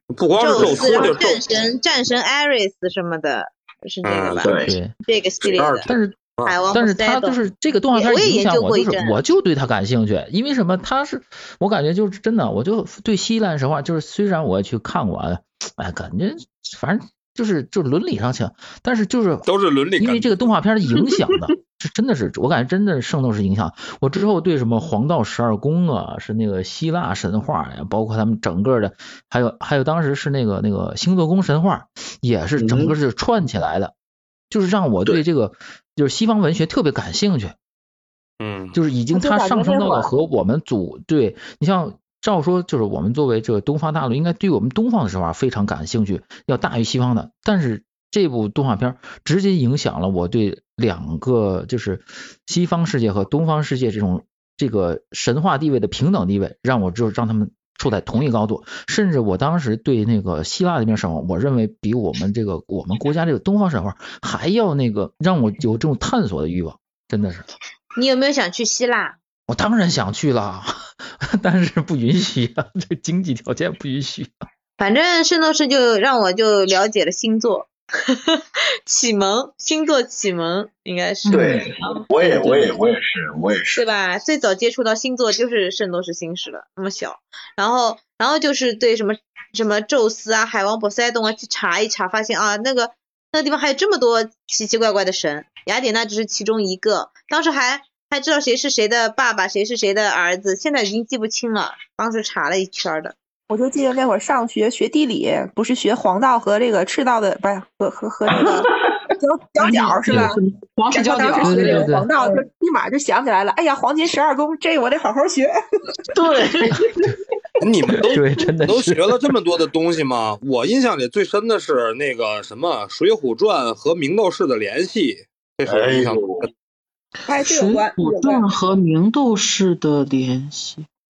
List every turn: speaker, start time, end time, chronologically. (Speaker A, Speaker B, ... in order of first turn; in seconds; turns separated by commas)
Speaker A: 0.1-1.4, Speaker B: 0.4-5.9, Speaker C: 0.6-1.3, Speaker A: 4.0-4.5, Speaker C: 4.4-4.7, Speaker D: 4.6-5.0, Speaker A: 5.5-6.6, Speaker D: 5.8-6.2, Speaker B: 6.4-7.4, Speaker D: 6.7-19.5, Speaker B: 7.9-9.2, Speaker A: 19.4-20.3, Speaker D: 20.0-33.9, Speaker C: 32.6-33.0, Speaker D: 34.5-37.5, Speaker A: 38.4-38.8, Speaker D: 38.7-67.5, Speaker E: 39.1-40.1, Speaker B: 68.0-69.2, Speaker D: 69.5-74.4, Speaker B: 74.8-82.7, Speaker F: 81.2-81.6, Speaker C: 81.3-83.8, Speaker B: 83.7-103.1, Speaker E: 103.5-110.4, Speaker F: 109.6-112.1, Speaker E: 110.9-115.5, Speaker D: 111.4-112.1, Speaker F: 116.1-117.1, Speaker A: 117.6-126.5, Speaker D: 117.9-119.2, Speaker C: 125.6-126.5, Speaker E: 127.3-128.5, Speaker F: 127.4-130.8